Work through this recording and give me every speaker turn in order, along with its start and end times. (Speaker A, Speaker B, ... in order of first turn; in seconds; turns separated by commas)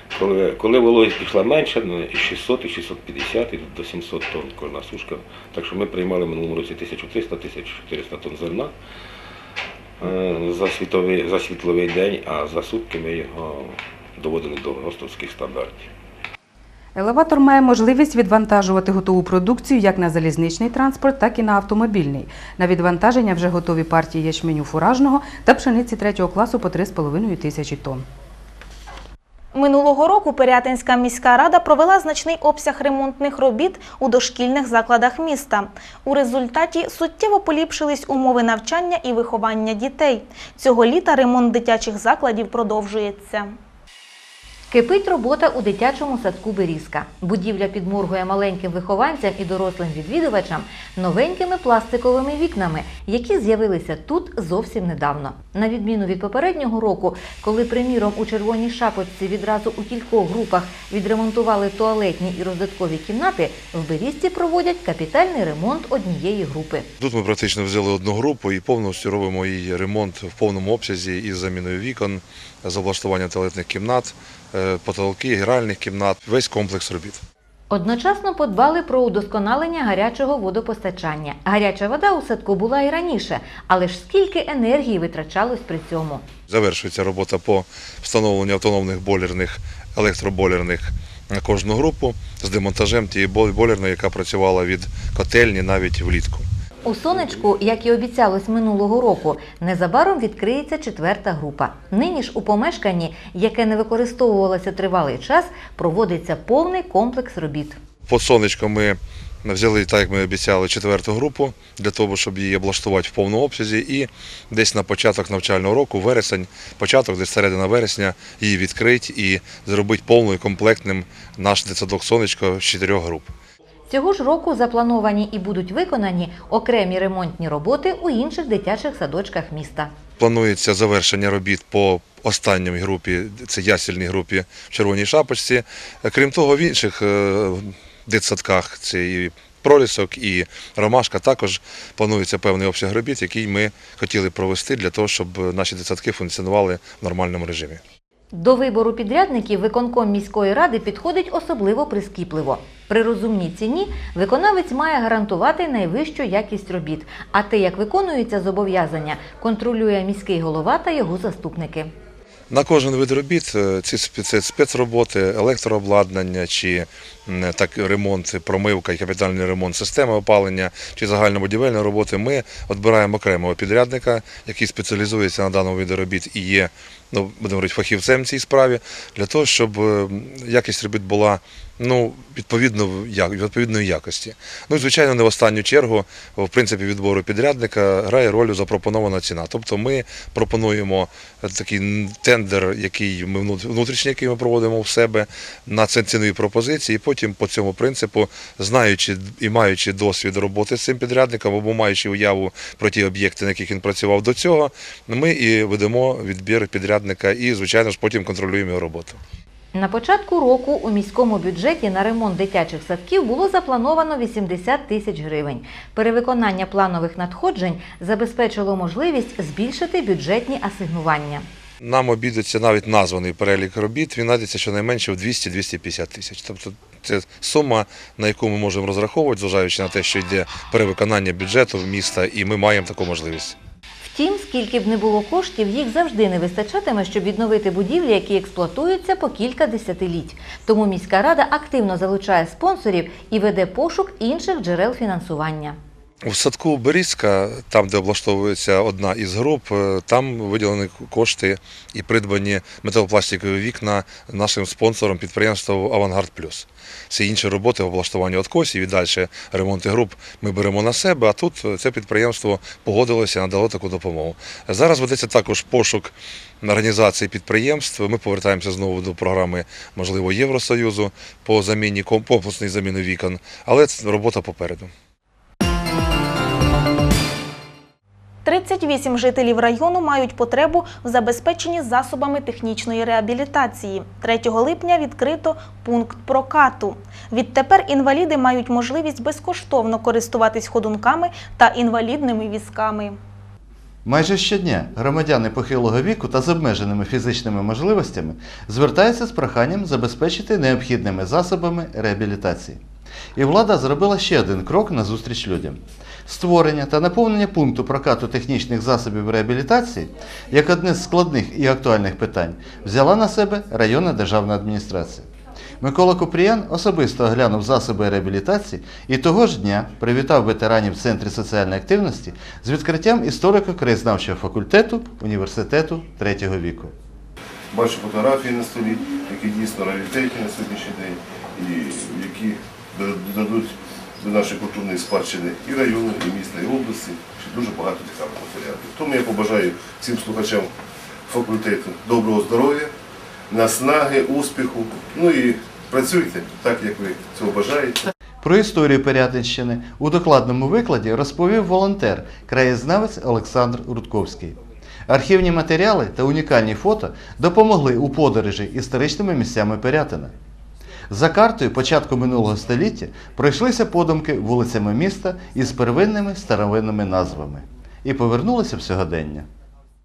Speaker A: 0.1-8.7, Speaker A: 10.0-15.9, Speaker B: 16.9-28.1, Speaker C: 29.5-43.6, Speaker D: 44.7-66.9, Speaker E: 67.0-77.2, Speaker D: 77.7-86.2, Speaker E: 86.5-96.5, Speaker D: 96.8-107.8, Speaker E: 108.1-123.3, Speaker D: 123.9-129.9, Speaker E: 130.2-147.8, Speaker D: 148.3-161.9, Speaker E: 162.5-209.2, Speaker D: 209.8-221.5, Speaker E: 221.8-233.6, Speaker D: 234.0-245.8, Speaker E: 246.2-274.9, Speaker C: 278.4-293.2, Speaker F: 294.1-302.8, Speaker F: 303.4-315.3, Speaker F: 315.8-326.9, Speaker G: 327.7-340.7, Speaker G: 341.3-342.9, Speaker G: 343.5-348.1, Speaker F: 348.4-360.3, Speaker F: 361.1-369.5